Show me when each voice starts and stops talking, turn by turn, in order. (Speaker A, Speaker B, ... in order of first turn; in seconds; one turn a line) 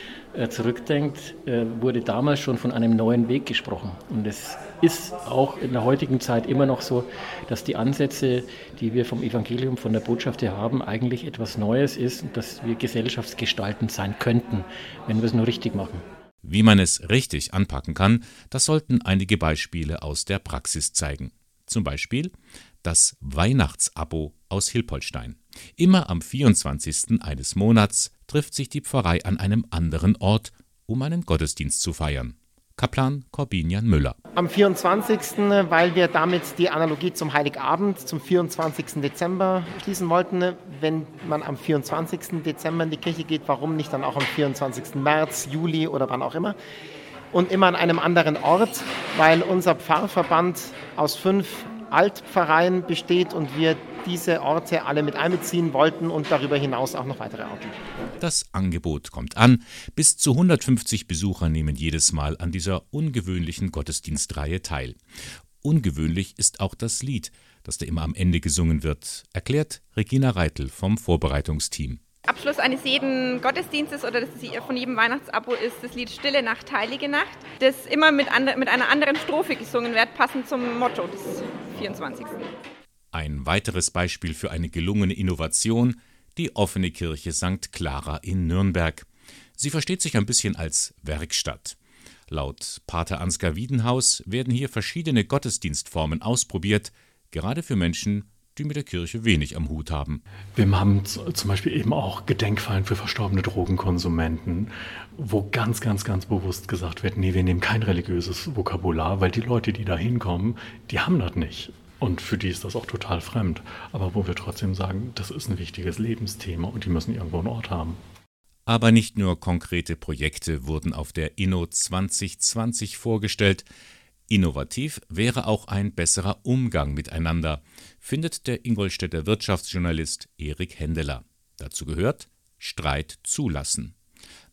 Speaker A: 0.3-16.0
Speaker B: 16.4-34.2
Speaker C: 34.4-46.6
Speaker C: 47.3-57.8
Speaker B: 58.2-65.0
Speaker B: 65.6-72.0
Speaker D: 72.3-82.5
Speaker B: 83.1-91.8
Speaker B: 92.3-100.2
Speaker E: 100.6-118.0
Speaker B: 118.7-123.7
Speaker B: 124.3-133.9